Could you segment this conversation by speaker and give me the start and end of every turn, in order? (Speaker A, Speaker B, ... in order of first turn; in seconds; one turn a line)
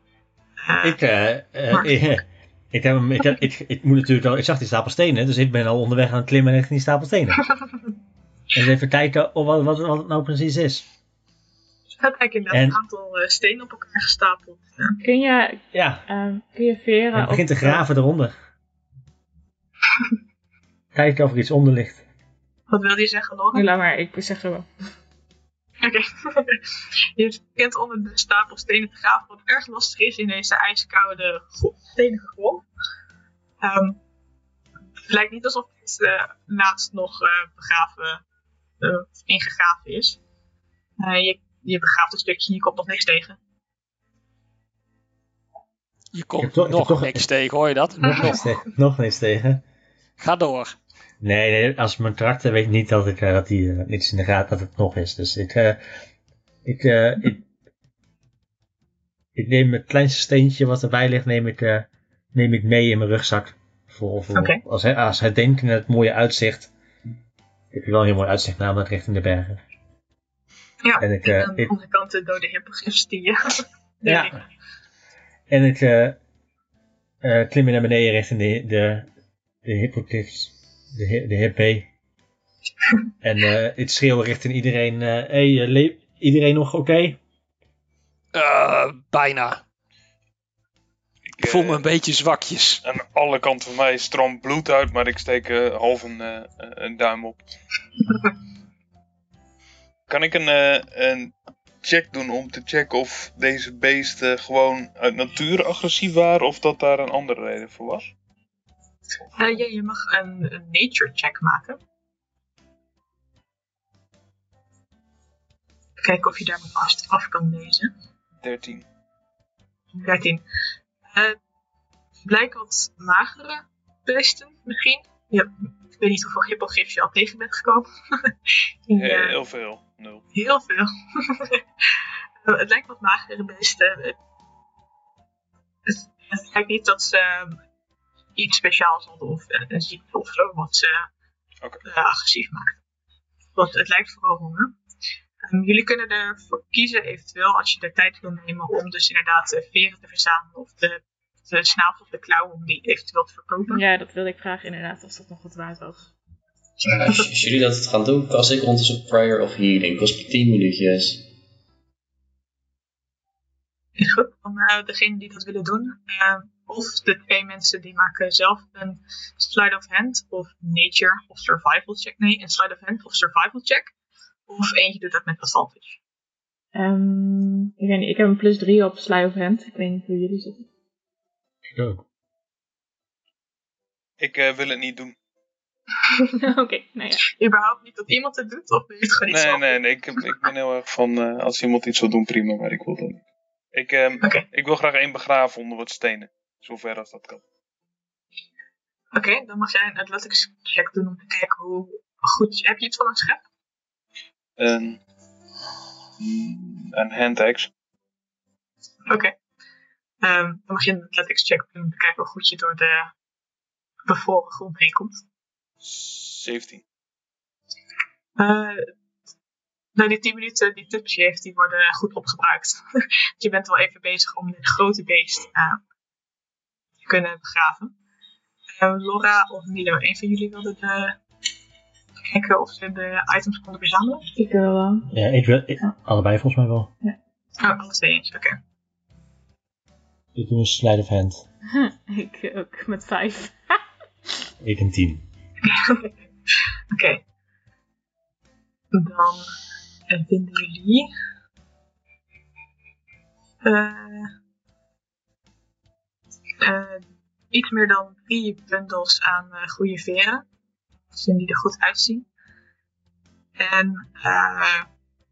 Speaker A: 0.6-1.0
Speaker B: 0.8-7.5
Speaker A: 1.7-2.0
Speaker B: 8.5-10.9
Speaker A: 12.0-15.0
Speaker B: 12.5-12.8
Speaker C: 15.0-17.9
Speaker B: 15.7-16.0
Speaker B: 17.1-18.4
Speaker B: 20.9-22.0
Speaker A: 22.7-23.7
Speaker C: 23.5-24.7
Speaker A: 25.8-26.6
Speaker A: 27.1-32.6
Speaker A: 33.6-34.0
Speaker A: 35.0-38.2
Speaker A: 38.8-40.2
Speaker A: 41.0-43.4
Speaker D: 46.1-48.6
Speaker B: 46.4-47.3
Speaker B: 48.0-49.6
Speaker D: 50.2-50.8
Speaker B: 51.2-55.8
Speaker B: 56.6-57.5
Speaker B: 59.4-66.7
Speaker A: 64.3-64.6
Speaker B: 67.7-69.6
Speaker A: 70.8-74.5
Speaker B: 71.0-71.7
Speaker B: 74.1-74.4
Speaker B: 75.5-76.2
Speaker B: 77.2-79.1
Speaker B: 79.6-81.9
Speaker B: 83.2-87.2
Speaker D: 88.3-89.6
Speaker E: 91.3-91.8
Speaker D: 91.4-92.8
Speaker E: 92.8-97.4
Speaker E: 100.1-101.3
Speaker E: 101.8-108.1
Speaker A: 109.4-111.8
Speaker A: 116.0-117.9
Speaker E: 118.4-118.8
Speaker A: 119.9-120.4
Speaker A: 121.1-121.4
Speaker A: 122.2-128.4
Speaker A: 128.9-129.4
Speaker E: 128.9-130.2
Speaker A: 130.3-131.6
Speaker A: 132.4-134.2
Speaker A: 135.9-137.6
Speaker A: 138.4-141.1
Speaker A: 141.8-142.8
Speaker A: 143.6-144.8
Speaker A: 145.4-153.8
Speaker C: 153.7-156.1
Speaker F: 156.9-161.3
Speaker A: 164.0-173.9
Speaker A: 174.5-176.0
Speaker C: 176.8-180.7
Speaker B: 181.7-182.1
Speaker E: 184.2-185.2
Speaker C: 186.4-187.3
Speaker A: 187.3-189.8
Speaker E: 189.3-193.2
Speaker E: 193.7-197.4
Speaker A: 199.1-203.4
Speaker E: 204.6-205.0
Speaker E: 206.2-207.7
Speaker A: 209.1-209.3
Speaker A: 210.2-213.1
Speaker A: 214.1-215.2
Speaker E: 215.8-216.8
Speaker A: 218.4-218.9
Speaker A: 219.9-222.8
Speaker A: 223.4-225.8
Speaker A: 227.1-227.9
Speaker A: 228.8-231.2
Speaker A: 232.2-234.3
Speaker C: 234.3-235.1
Speaker B: 235.1-236.9
Speaker A: 237.6-238.6
Speaker B: 240.3-241.4
Speaker C: 241.7-243.8
Speaker B: 244.6-245.2
Speaker A: 245.7-246.1
Speaker A: 246.9-247.2
Speaker A: 248.9-249.5
Speaker A: 250.1-251.1
Speaker A: 253.6-254.3
Speaker A: 256.6-260.4
Speaker A: 261.1-262.3
Speaker A: 263.6-264.9